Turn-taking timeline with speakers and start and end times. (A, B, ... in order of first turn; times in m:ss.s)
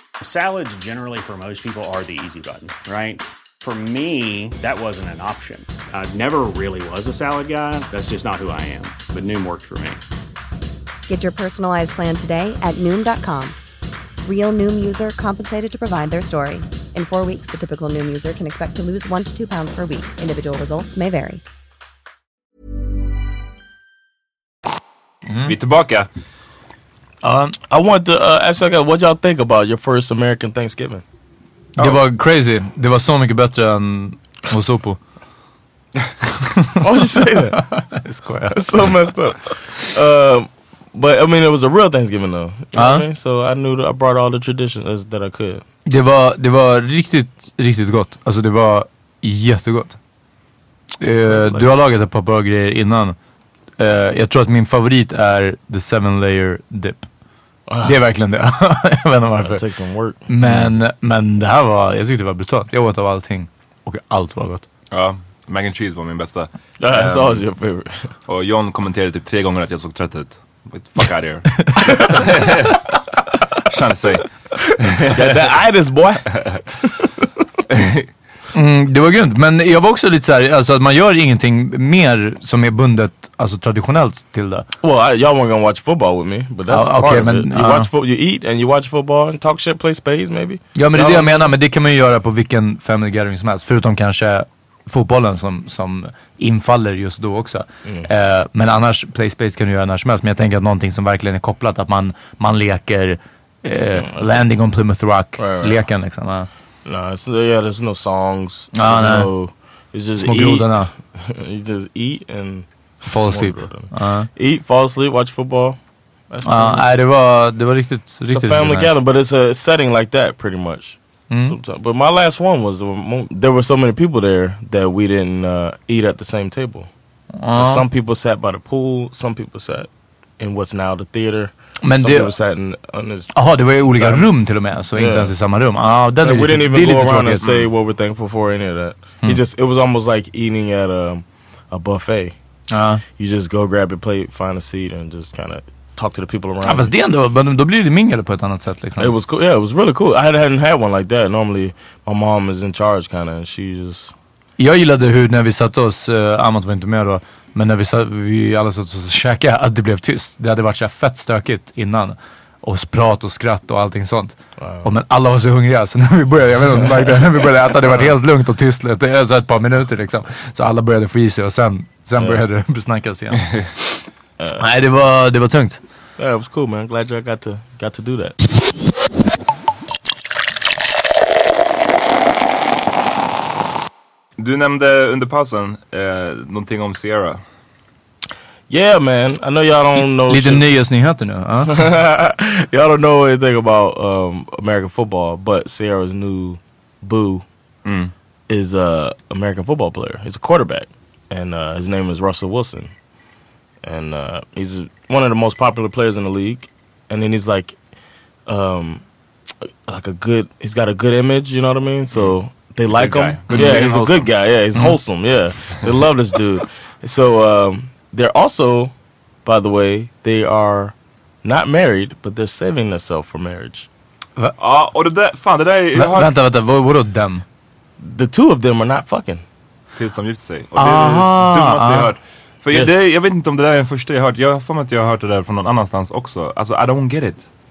0:00.2-0:10.0 A
0:11.1-0:13.6 B
0:14.2-0:21.4 B
0:25.5-0:26.1 C
0:27.2-0:27.6 D
0:27.7-0:31.0 E
0:31.8-0:35.0 D
0:36.8-0:37.8 E
0:37.6-0:38.6 D
0:38.5-0:45.6 E
0:42.8-0:43.1 D
0:45.9-0:50.0 D
0:51.0-0:53.2 D
0:51.3-0:51.6 E
0:53.8-0:57.1 D
0:57.7-0:57.9 E
0:57.8-0:59.6 D
0:59.4-1:00.3 E
1:00.3-1:04.6 D
1:04.9-1:07.4 C
1:06.8-1:08.1 E
1:08.3-1:12.8 C
1:11.6-1:12.0 D
1:13.7-1:15.5 C
1:15.1-1:17.1 E
1:17.7-1:18.1 C
1:18.5-1:24.7 D
1:24.8-1:31.5 E
1:26.7-1:27.9 D
1:30.8-1:46.5 D
1:44.0-1:44.4 E
1:45.4-1:45.8 E
1:46.8-1:55.8 E
1:48.7-1:49.3 D
1:50.2-1:50.9 D
1:53.1-1:54.3 D
1:56.3-1:56.9 E
1:56.4-1:58.9 D
1:58.3-2:06.9 E
2:01.3-2:01.6 D
2:07.4-2:07.8 D
2:07.6-2:13.3 E
2:11.8-2:12.3 D
2:13.3-2:17.4 D
2:13.9-2:14.3 E
2:15.0-2:15.3 E
2:16.2-2:22.4 E
2:22.7-2:23.0 D
2:23.2-2:26.9 E
2:26.6-2:29.2 D
2:29.0-2:34.1 E
2:34.6-2:53.9 D
2:44.6-2:44.9 E
2:52.2-2:52.4 E
2:54.6-2:55.8 D
2:56.2-2:58.4 E
3:04.4-3:07.4 C
3:08.7-3:10.6 E
3:10.1-3:11.7 D
3:11.7-3:17.4 E
3:17.8-3:18.1 C
3:18.5-3:22.9 E
3:23.8-3:27.8 E
3:28.5-3:29.0 E
3:29.9-3:38.9 E
3:32.1-3:34.3 C
3:33.5-3:33.8 D
3:39.4-3:43.9 E
3:44.6-3:46.3 C
3:46.0-3:47.4 D
3:48.0-3:49.4 E
3:50.0-3:57.5 C
3:50.8-3:52.1 D